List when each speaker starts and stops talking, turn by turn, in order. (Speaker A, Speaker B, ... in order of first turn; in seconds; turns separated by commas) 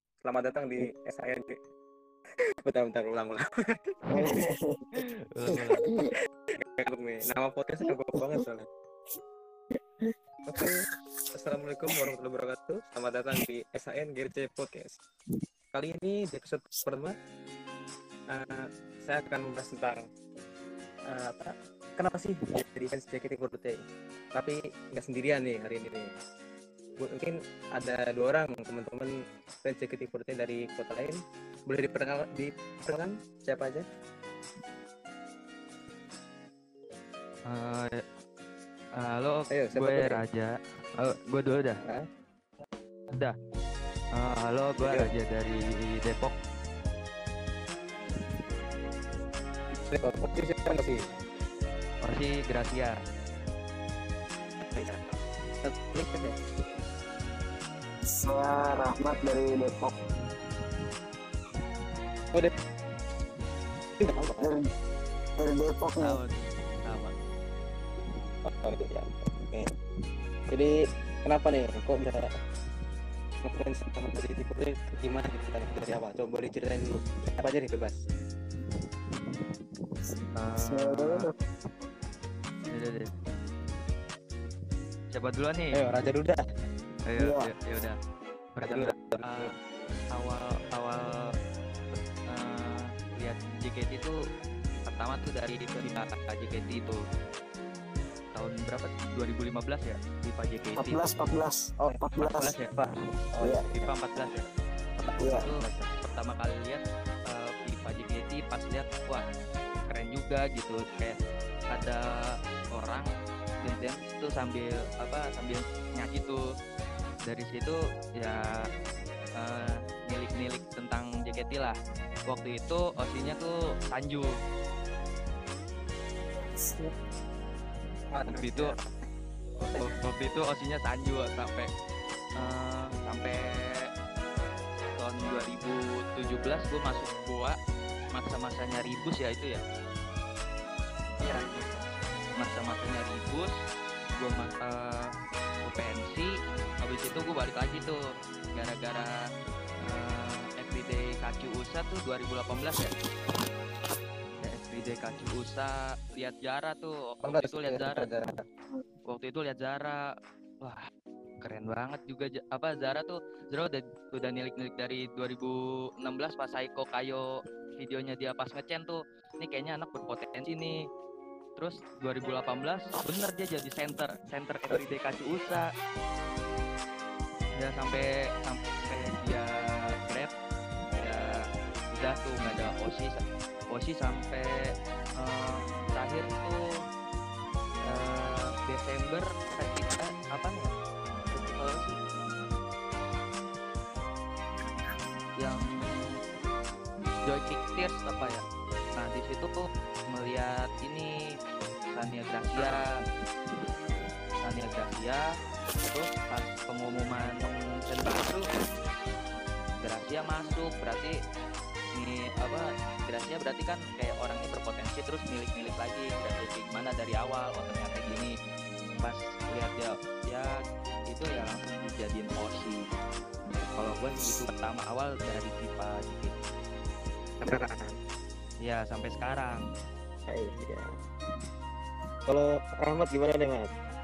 Speaker A: 0.2-1.5, Speaker A: 2.6-3.8, Speaker B: 4.1-4.9, Speaker C: 5.0-5.8, Speaker B: 5.5-6.1, Speaker A: 6.8-8.7, Speaker A: 10.4-10.8, Speaker A: 11.3-14.9, Speaker A: 15.7-17.1, Speaker A: 18.3-20.0, Speaker A: 21.1-23.8, Speaker A: 24.3-26.1, Speaker A: 27.0-29.1, Speaker A: 29.6-33.9, Speaker C: 37.5-38.0, Speaker C: 39.0-41.8, Speaker A: 39.5-40.2, Speaker C: 44.1-46.3, Speaker A: 44.8-45.1, Speaker A: 49.9-51.0, Speaker C: 52.0-52.9, Speaker A: 54.7-56.3, Speaker B: 58.1-59.9, Speaker A: 64.0-64.5, Speaker B: 64.4-64.7, Speaker B: 65.4-66.2, Speaker C: 66.0-67.2, Speaker A: 68.4-69.7, Speaker A: 71.2-72.3, Speaker A: 73.4-78.0, Speaker C: 80.3-81.3, Speaker B: 80.6-81.3, Speaker C: 82.7-83.1, Speaker C: 85.1-85.8, Speaker A: 85.7-86.4, Speaker C: 87.0-88.0, Speaker B: 87.2-87.5, Speaker C: 88.5-89.5, Speaker A: 88.6-89.5, Speaker C: 90.1-91.1, Speaker C: 92.3-94.1, Speaker C: 94.9-97.0, Speaker C: 98.3-101.0, Speaker B: 100.8-102.5, Speaker A: 101.8-104.5, Speaker C: 102.2-102.7, Speaker C: 103.8-104.3, Speaker A: 105.0-105.9, Speaker B: 105.2-105.5, Speaker C: 105.2-109.2, Speaker C: 109.9-111.2, Speaker C: 111.7-112.1, Speaker C: 112.7-113.1, Speaker C: 113.6-116.4, Speaker C: 117.2-118.4, Speaker C: 119.4-121.7, Speaker C: 122.3-124.3, Speaker B: 126.5-126.9, Speaker A: 128.1-128.9, Speaker C: 128.3-128.7, Speaker C: 129.6-131.7, Speaker C: 132.4-133.4, Speaker C: 135.0-137.6, Speaker C: 138.1-139.6, Speaker A: 141.2-141.8, Speaker C: 142.4-143.5, Speaker C: 144.2-145.1, Speaker C: 145.6-146.3, Speaker C: 146.8-148.0, Speaker C: 148.5-149.1, Speaker C: 149.8-152.9, Speaker C: 154.4-158.1, Speaker A: 157.2-158.4, Speaker C: 159.1-160.0, Speaker C: 161.4-167.2, Speaker C: 167.8-170.7, Speaker C: 171.6-175.7, Speaker C: 177.6-179.5, Speaker C: 180.1-180.3, Speaker C: 180.9-181.3, Speaker C: 181.9-183.2, Speaker C: 183.7-184.6, Speaker C: 185.2-186.6, Speaker C: 187.9-190.7, Speaker C: 191.3-192.0, Speaker C: 195.4-196.2, Speaker C: 197.2-198.4, Speaker C: 198.9-199.5, Speaker C: 200.1-201.1, Speaker C: 201.9-202.8, Speaker A: 202.5-202.9, Speaker C: 204.4-205.2, Speaker C: 205.8-208.4, Speaker C: 209.8-211.2, Speaker C: 211.9-218.3, Speaker C: 219.0-220.5, Speaker C: 221.1-222.8, Speaker C: 223.7-226.3, Speaker A: 227.4-227.9, Speaker C: 228.6-229.6, Speaker A: 230.3-230.9, Speaker A: 232.2-233.7